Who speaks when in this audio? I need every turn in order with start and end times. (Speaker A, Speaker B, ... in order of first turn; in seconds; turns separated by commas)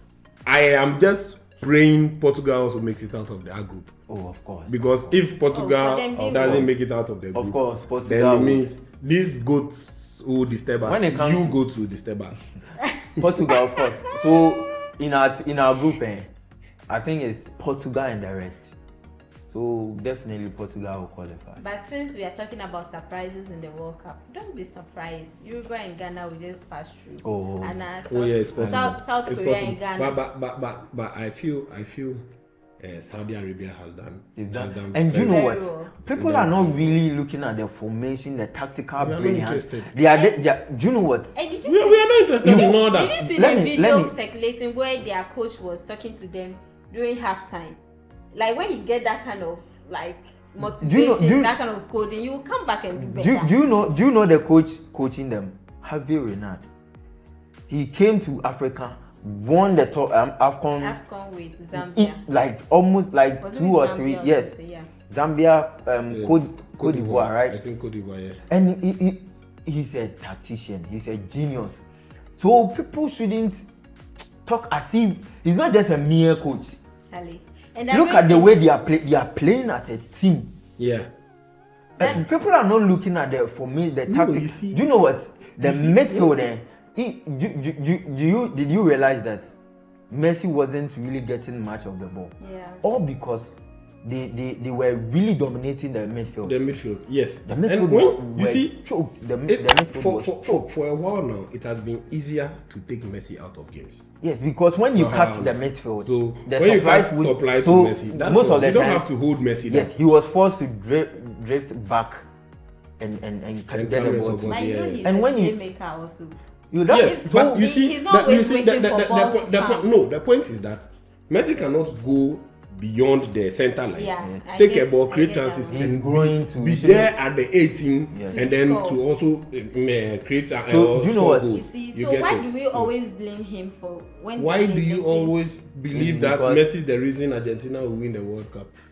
Speaker A: 0.5-3.9, Speaker B: 4.1-5.2, Speaker A: 4.7-12.5, Speaker C: 5.5-6.7, Speaker B: 6.1-6.8, Speaker B: 7.3-8.6, Speaker B: 10.8-11.6, Speaker C: 12.8-14.7, Speaker B: 13.2-16.3, Speaker B: 16.9-18.7, Speaker B: 19.5-21.6, Speaker C: 21.6-30.2, Speaker B: 27.2-27.8, Speaker A: 28.1-32.3, Speaker B: 28.6-28.9, Speaker A: 32.8-35.5, Speaker B: 34.4-41.4, Speaker C: 35.1-35.9, Speaker A: 36.1-37.0, Speaker A: 39.0-39.9, Speaker C: 41.4-47.8, Speaker A: 41.6-43.2, Speaker B: 42.4-44.1, Speaker C: 48.3-53.5, Speaker B: 50.6-51.5, Speaker B: 53.0-56.7, Speaker B: 57.7-61.0, Speaker C: 60.8-62.2, Speaker B: 61.8-64.5, Speaker C: 63.4-64.9, Speaker B: 65.1-67.5, Speaker A: 66.1-68.4, Speaker B: 68.5-71.8, Speaker B: 72.4-73.7, Speaker B: 74.5-76.8, Speaker C: 77.0-78.6, Speaker B: 77.9-80.5, Speaker A: 80.8-81.1, Speaker B: 82.0-89.5, Speaker A: 84.1-84.8, Speaker A: 85.6-86.5, Speaker B: 90.1-93.5, Speaker C: 92.4-92.8, Speaker B: 94.0-96.5, Speaker A: 96.4-98.8, Speaker B: 97.5-100.7, Speaker A: 99.5-104.0, Speaker B: 104.2-109.1, Speaker A: 105.0-109.9, Speaker B: 109.7-112.3, Speaker B: 113.0-115.5, Speaker A: 113.7-115.0, Speaker C: 114.5-116.4, Speaker B: 116.7-117.7, Speaker A: 116.9-132.9, Speaker C: 117.3-119.8, Speaker C: 123.9-125.9, Speaker B: 125.7-127.1, Speaker B: 128.1-128.4, Speaker C: 128.3-129.0, Speaker B: 130.7-131.6, Speaker C: 131.5-135.3, Speaker A: 134.4-138.7, Speaker B: 135.9-136.6